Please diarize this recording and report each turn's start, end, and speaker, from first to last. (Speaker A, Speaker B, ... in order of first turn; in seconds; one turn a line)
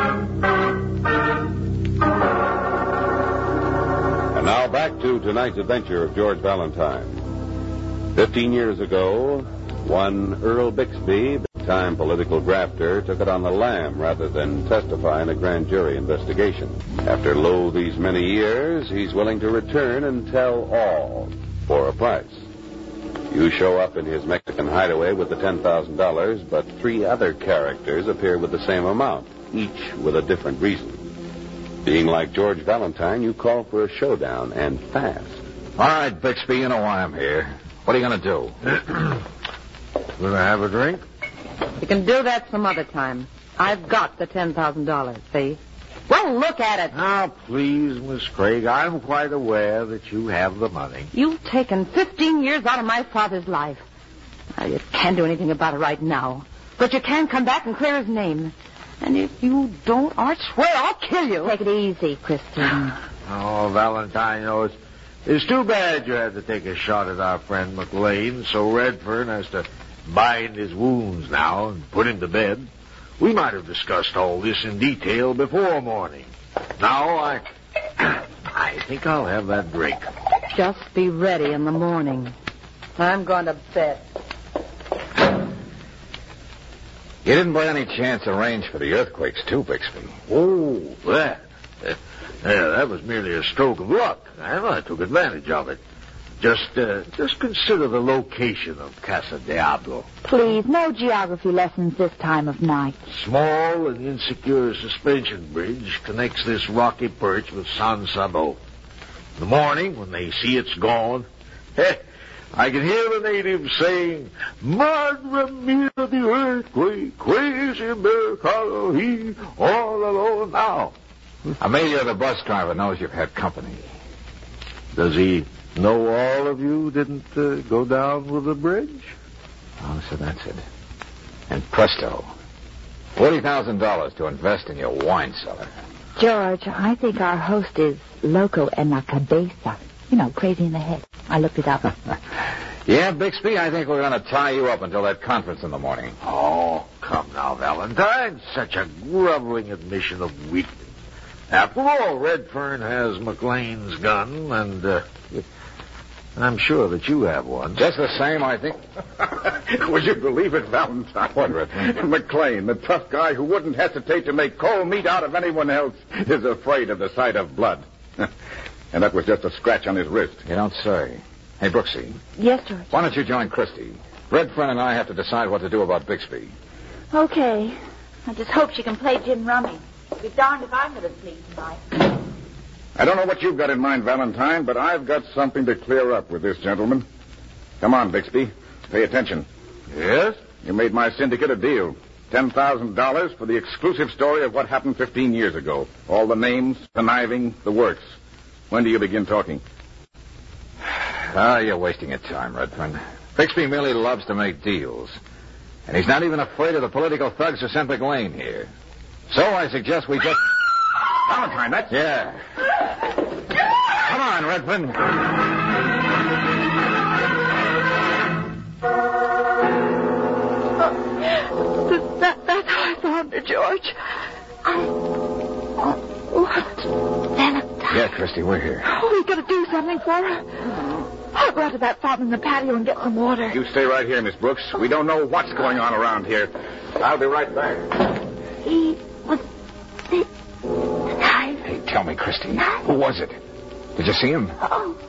Speaker A: 4.3-7.2
Speaker A: 8.1-22.4
Speaker A: 23.3-31.0
Speaker A: 31.8-35.4
Speaker B: 35.8-38.5
Speaker C: 40.2-41.0
Speaker D: 41.8-47.0
Speaker C: 46.9-51.1
Speaker D: 51.1-53.8
Speaker D: 54.6-61.6
Speaker E: 61.4-63.0
Speaker C: 63.2-77.5
Speaker C: 78.0-80.1
Speaker D: 80.5-82.3
Speaker D: 83.0-84.0
Speaker B: 87.2-90.2
Speaker C: 90.3-95.8
Speaker C: 96.4-100.1
Speaker E: 100.2-103.0
Speaker C: 103.1-108.6
Speaker C: 109.4-112.0
Speaker C: 112.5-120.9
Speaker B: 121.6-123.8
Speaker C: 124.9-129.1
Speaker B: 129.8-130.6
Speaker B: 131.5-132.3
Speaker B: 133.1-135.7
Speaker E: 136.2-141.9
Speaker B: 142.8-146.1
Speaker C: 146.2-150.7
Speaker C: 151.5-155.4
Speaker C: 156.3-157.8
Speaker B: 157.7-158.8
Speaker F: 159.3-168.3
Speaker F: 168.9-170.4
Speaker B: 170.4-172.2
Speaker E: 172.4-172.9
Speaker B: 172.9-176.5
Speaker E: 177.1-181.8
Speaker F: 182.9-187.0
Speaker F: 187.8-189.4
Speaker C: 189.9-190.4
Speaker F: 190.6-198.0
Speaker F: 198.7-199.6
Speaker B: 201.0-205.2
Speaker B: 205.9-208.7
Speaker B: 209.3-210.5
Speaker F: 211.2-211.9
Speaker B: 211.9-212.4
Speaker B: 213.9-215.0
Speaker E: 221.6-223.9
Speaker E: 226.3-227.6
Speaker B: 227.9-228.9
Speaker E: 228.8-230.4
Speaker E: 231.3-233.6
Speaker F: 233.5-237.9
Speaker E: 238.6-239.4
Speaker E: 241.2-241.6
Speaker B: 241.6-243.4
Speaker B: 243.9-244.6
Speaker E: 244.7-244.9